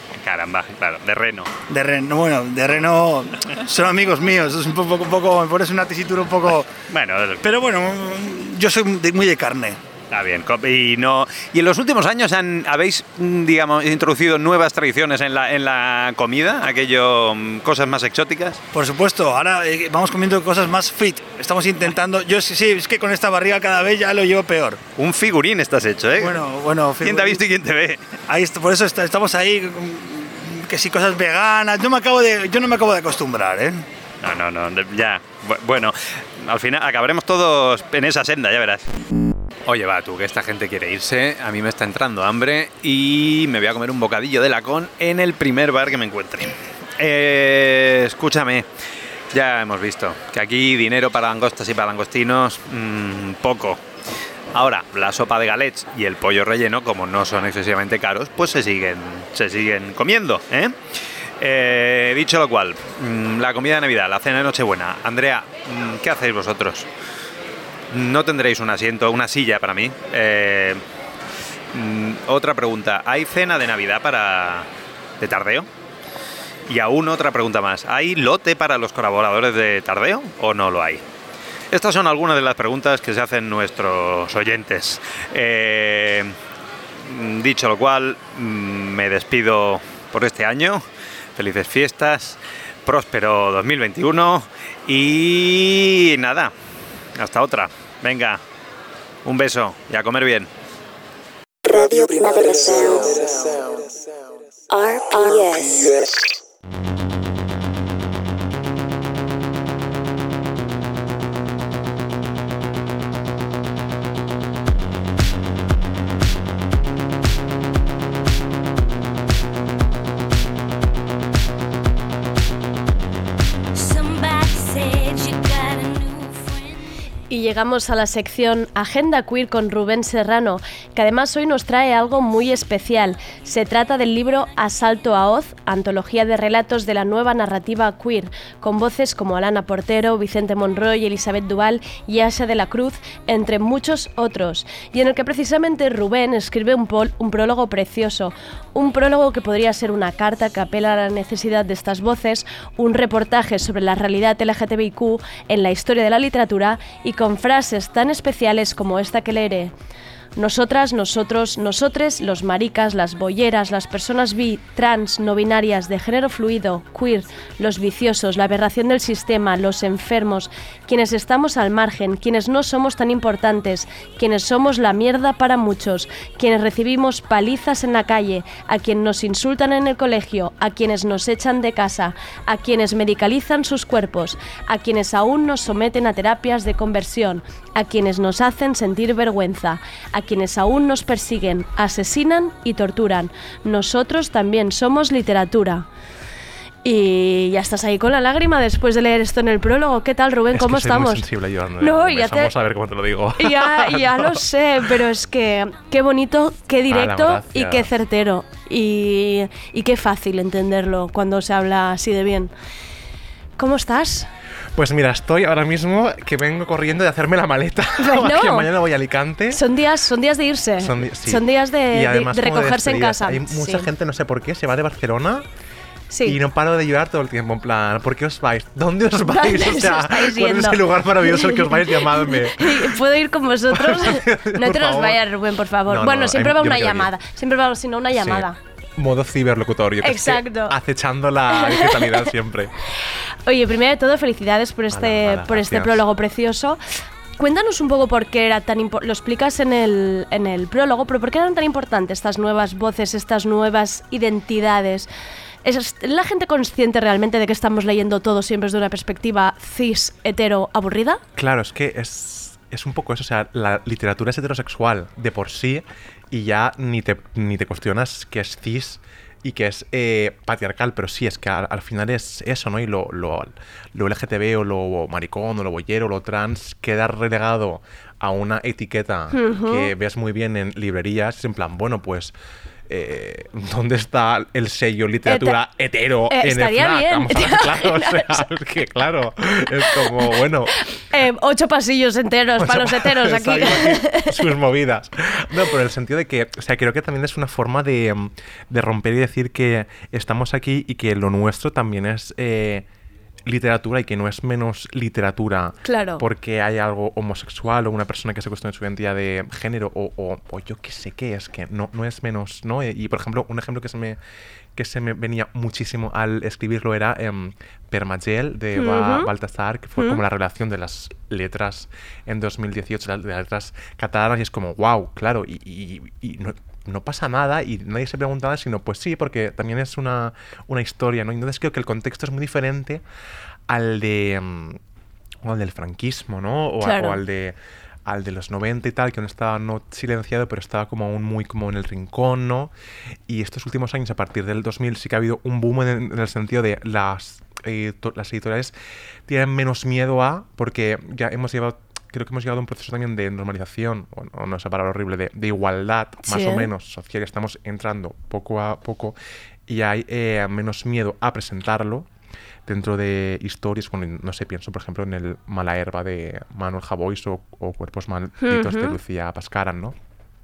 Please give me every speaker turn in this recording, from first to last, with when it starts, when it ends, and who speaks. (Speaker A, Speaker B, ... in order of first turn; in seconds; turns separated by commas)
Speaker A: 0.1-1.5, Speaker B: 1.7-6.7, Speaker A: 6.9-7.4, Speaker B: 7.4-9.8, Speaker A: 10.1-18.6, Speaker B: 18.7-24.8, Speaker A: 25.0-26.4, Speaker B: 26.2-27.4, Speaker A: 27.0-28.1, Speaker B: 28.3-33.8, Speaker A: 34.2-38.8, Speaker A: 39.7-48.7, Speaker A: 49.3-53.8, Speaker A: 54.5-60.8, Speaker A: 61.4-66.9, Speaker A: 67.9-70.8, Speaker A: 71.7-74.7, Speaker A: 75.2-75.7, Speaker A: 76.7-81.0, Speaker A: 81.7-86.3, Speaker A: 87.0-90.8, Speaker A: 91.4-96.5, Speaker A: 97.2-98.4, Speaker A: 99.2-100.5, Speaker C: 101.6-103.2, Speaker C: 104.7-106.1, Speaker D: 127.3-159.7, Speaker D: 160.4-195.9, Speaker D: 196.8-201.2, Speaker E: 200.5-204.4, Speaker D: 201.8-202.5, Speaker D: 203.4-212.5, Speaker E: 206.9-207.9, Speaker D: 213.6-214.3, Speaker E: 214.8-219.6, Speaker D: 218.0-218.7, Speaker D: 219.5-223.9, Speaker E: 220.8-225.4, Speaker D: 226.1-226.4, Speaker E: 226.2-233.0, Speaker D: 229.3-238.6, Speaker E: 233.7-235.2, Speaker E: 235.9-237.1, Speaker E: 238.2-242.7, Speaker D: 240.0-240.8, Speaker D: 241.5-242.3, Speaker D: 243.5-246.8, Speaker E: 244.9-246.0, Speaker D: 247.4-255.1, Speaker D: 255.6-261.2, Speaker E: 261.4-282.4, Speaker D: 279.3-279.9, Speaker E: 282.9-290.7, Speaker D: 285.3-285.6, Speaker D: 286.3-288.4, Speaker D: 291.1-294.3, Speaker E: 292.6-302.9, Speaker E: 303.5-314.2, Speaker D: 305.9-306.2, Speaker E: 314.8-333.0, Speaker D: 318.8-319.3, Speaker E: 333.7-334.8, Speaker E: 335.4-337.6, Speaker D: 336.8-337.2, Speaker E: 338.1-342.7, Speaker E: 343.3-348.8, Speaker E: 349.3-359.2, Speaker D: 356.2-356.7, Speaker E: 359.7-362.1, Speaker E: 362.7-370.0, Speaker D: 368.4-369.0